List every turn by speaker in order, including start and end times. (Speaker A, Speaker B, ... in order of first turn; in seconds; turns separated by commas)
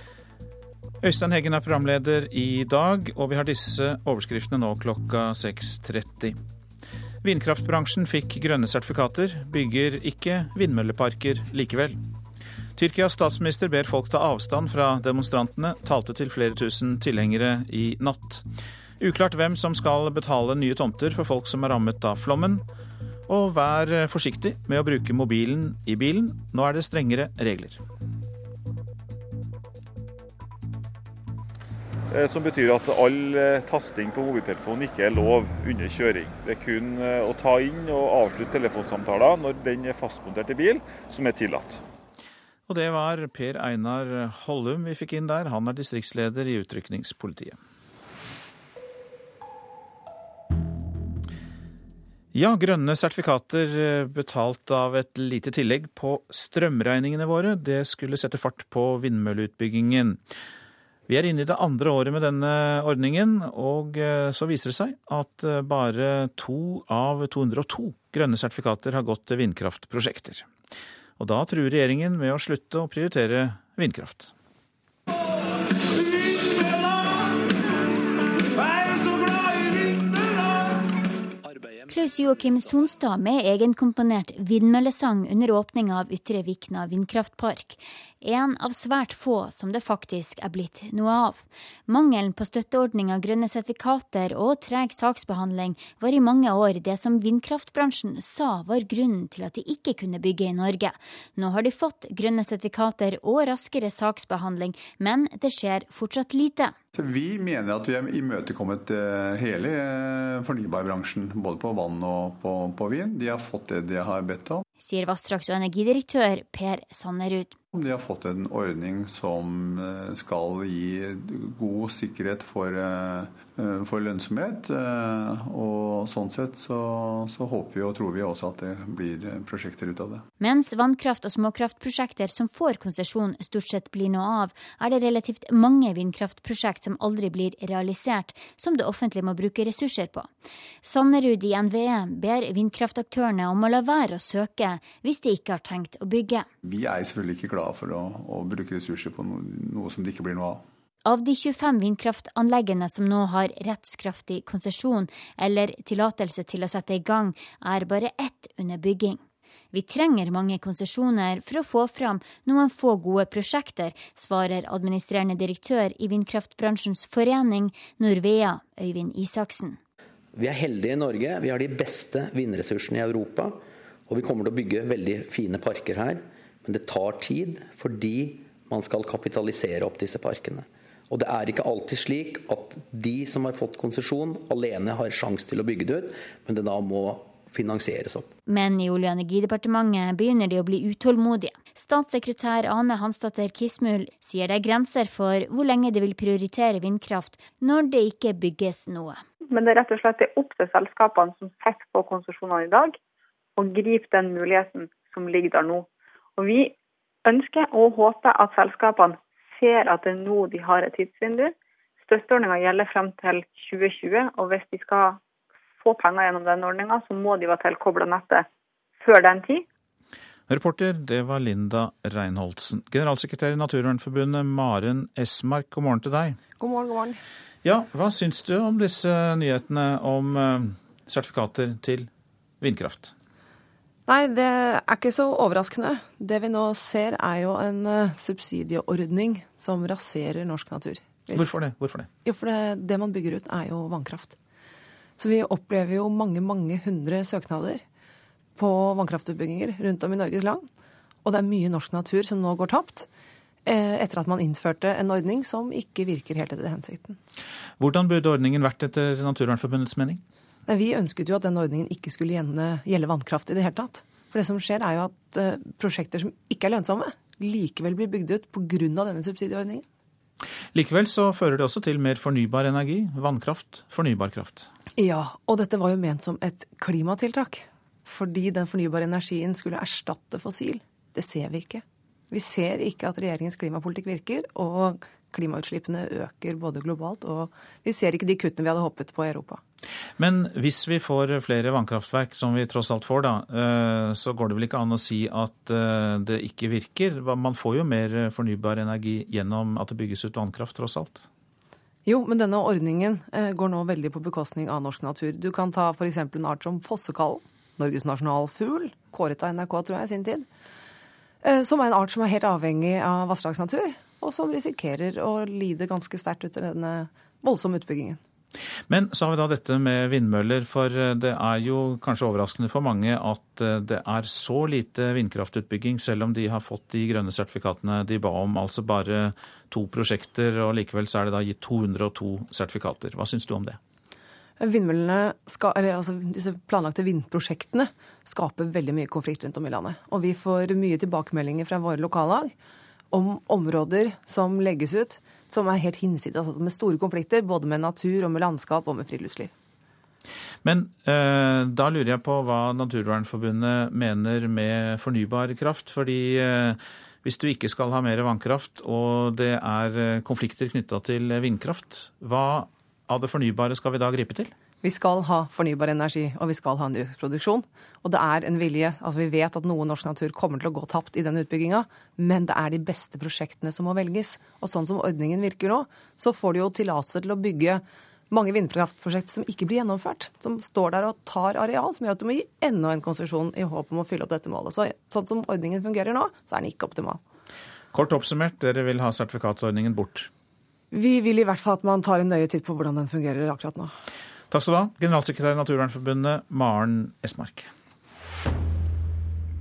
Speaker A: 1.0-6.4, Speaker A: 7.2-12.0, Speaker A: 12.8-18.4, Speaker A: 19.0-22.6, Speaker A: 23.3-27.8, Speaker B: 32.1-41.8, Speaker A: 42.7-47.6, Speaker A: 52.3-60.2, Speaker A: 61.1-70.5, Speaker A: 71.2-74.3, Speaker C: 81.9-106.7, Speaker D: 106.9-114.6, Speaker C: 114.8-117.5, Speaker D: 117.7-130.2, Speaker C: 130.4-140.3, Speaker C: 140.8-146.5, Speaker D: 146.6-150.6, Speaker C: 151.0-169.8, Speaker E: 170.3-188.3, Speaker C: 188.5-199.2, Speaker F: 199.5-203.0, Speaker F: 203.6-206.7, Speaker F: 207.2-215.2, Speaker F: 215.8-218.4, Speaker F: 219.0-219.6, Speaker A: 220.5-226.4, Speaker G: 226.6-227.2, Speaker A: 227.6-232.1, Speaker A: 232.6-233.1, Speaker G: 234.1-241.5, Speaker A: 241.3-242.1, Speaker G: 242.2-244.3, Speaker G: 245.2-247.8, Speaker G: 248.6-250.7, Speaker G: 251.2-253.1, Speaker G: 253.7-257.2, Speaker A: 257.8-260.2, Speaker G: 260.7-269.8, Speaker A: 270.7-274.7, Speaker G: 275.0-289.6, Speaker A: 290.2-301.2, Speaker G: 302.1-310.5, Speaker G: 311.4-318.2, Speaker A: 318.9-333.8, Speaker G: 334.6-342.5, Speaker G: 343.1-349.5, Speaker A: 350.6-364.5, Speaker G: 364.8-387.2, Speaker A: 387.9-390.3, Speaker G: 390.9-393.9, Speaker A: 394.5-397.7